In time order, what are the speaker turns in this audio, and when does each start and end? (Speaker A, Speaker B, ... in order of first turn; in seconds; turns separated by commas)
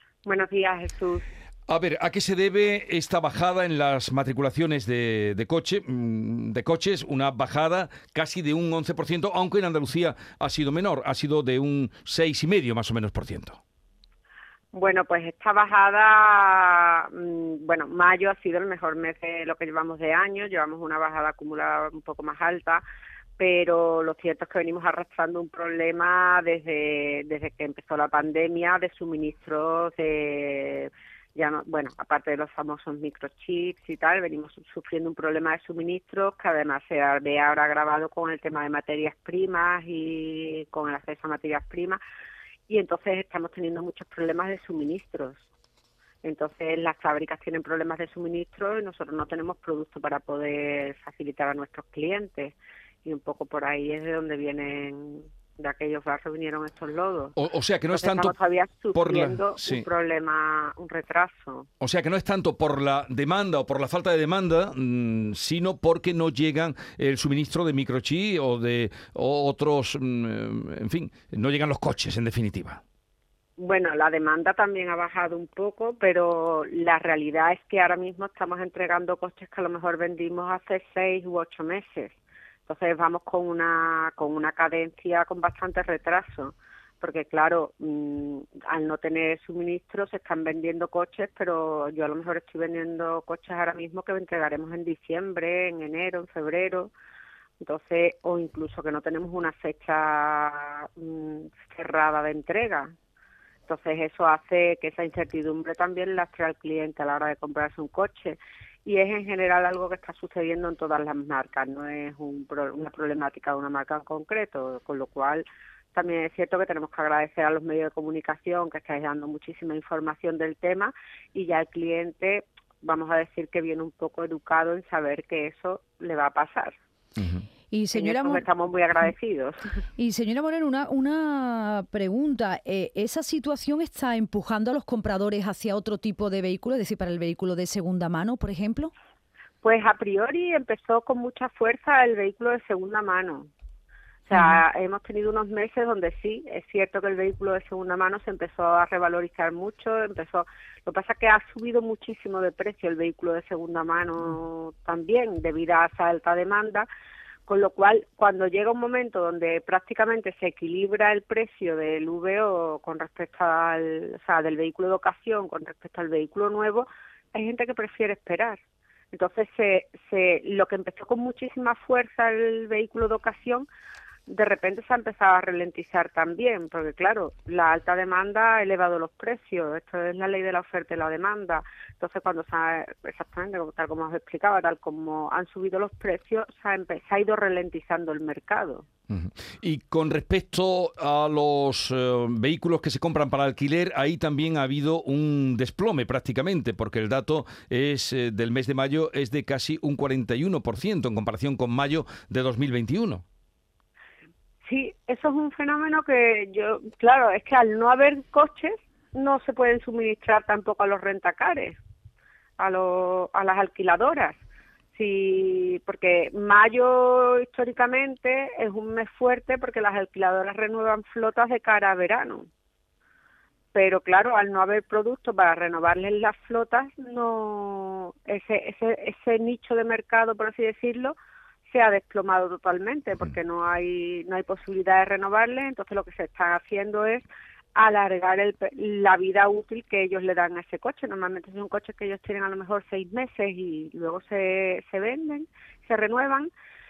Speaker A: 0.2-1.2, Speaker B: 1.7-13.6, Speaker A: 14.7-22.8, Speaker A: 23.4-42.0, Speaker A: 42.7-45.4, Speaker A: 46.2-57.3, Speaker B: 57.4-58.3, Speaker A: 57.9-61.7, Speaker B: 58.9-59.9, Speaker B: 61.8-72.8, Speaker A: 73.6-82.1, Speaker A: 82.7-96.9, Speaker A: 97.6-102.9, Speaker A: 103.7-126.8, Speaker B: 127.2-127.4, Speaker C: 127.7-128.4, Speaker A: 127.9-129.7, Speaker C: 130.0-138.9, Speaker A: 139.6-143.5, Speaker A: 144.3-156.9, Speaker C: 144.3-144.6, Speaker A: 157.5-168.6, Speaker A: 169.1-173.7, Speaker A: 174.3-188.8, Speaker B: 189.1-203.2, Speaker A: 204.6-211.8, Speaker A: 212.6-214.4, Speaker A: 214.9-222.5, Speaker A: 223.7-231.1, Speaker A: 231.7-246.5